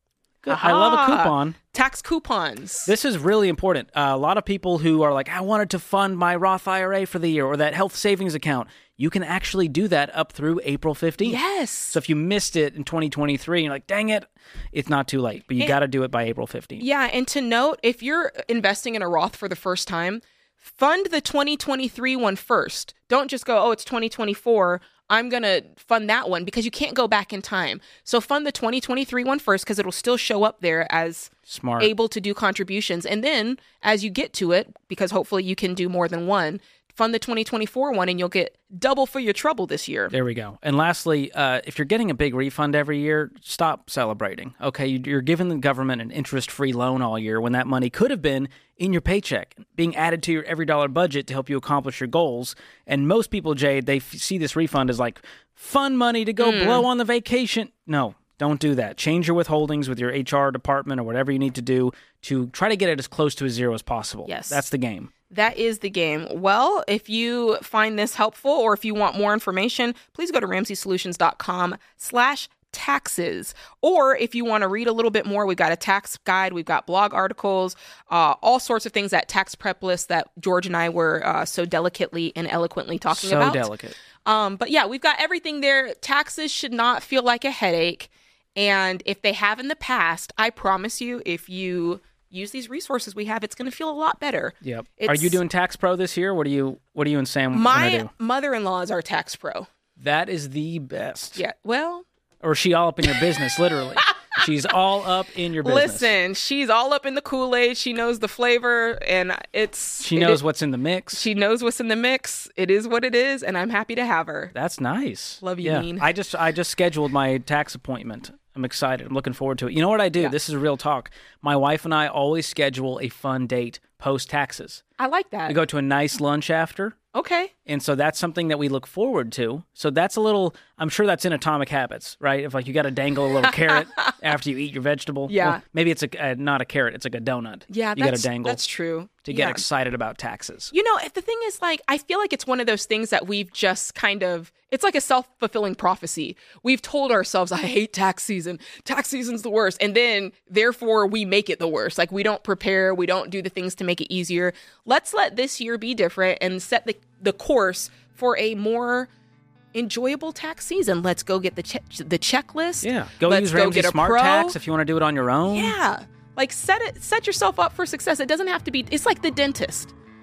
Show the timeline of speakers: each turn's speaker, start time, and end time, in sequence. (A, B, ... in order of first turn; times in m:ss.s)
0:00.4-0:01.6 A
0:00.5-0:02.9 B
0:02.8-0:11.4 A
0:11.2-0:12.0 B
0:11.9-0:16.8 A
0:16.8-0:40.1 B
0:31.5-0:31.9 A
0:40.1-1:05.1 A
0:56.4-0:56.8 B
1:04.2-1:04.6 B
1:05.3-1:23.7 B
1:23.1-1:23.9 A
1:24.2-1:35.4 B
1:34.6-1:38.1 A
1:37.5-1:39.7 B
1:40.0-1:41.4 A
1:41.4-1:42.0 B
1:42.4-1:46.1 A
1:44.0-1:44.4 B
1:45.6-1:50.4 B
1:50.0-1:51.2 A
1:51.1-1:54.5 B
1:54.5-2:04.8 A
1:55.4-1:56.1 B
2:05.0-2:05.6 B
2:05.5-2:07.0 A
2:07.1-2:07.5 B
2:07.6-2:18.6 A
2:13.4-2:14.1 B
2:15.3-2:15.6 B
2:17.7-2:19.6 B
2:19.2-2:20.7 A
2:20.7-2:39.1 B
2:39.7-2:44.6 B
2:42.8-2:45.8 A
2:45.5-2:49.9 B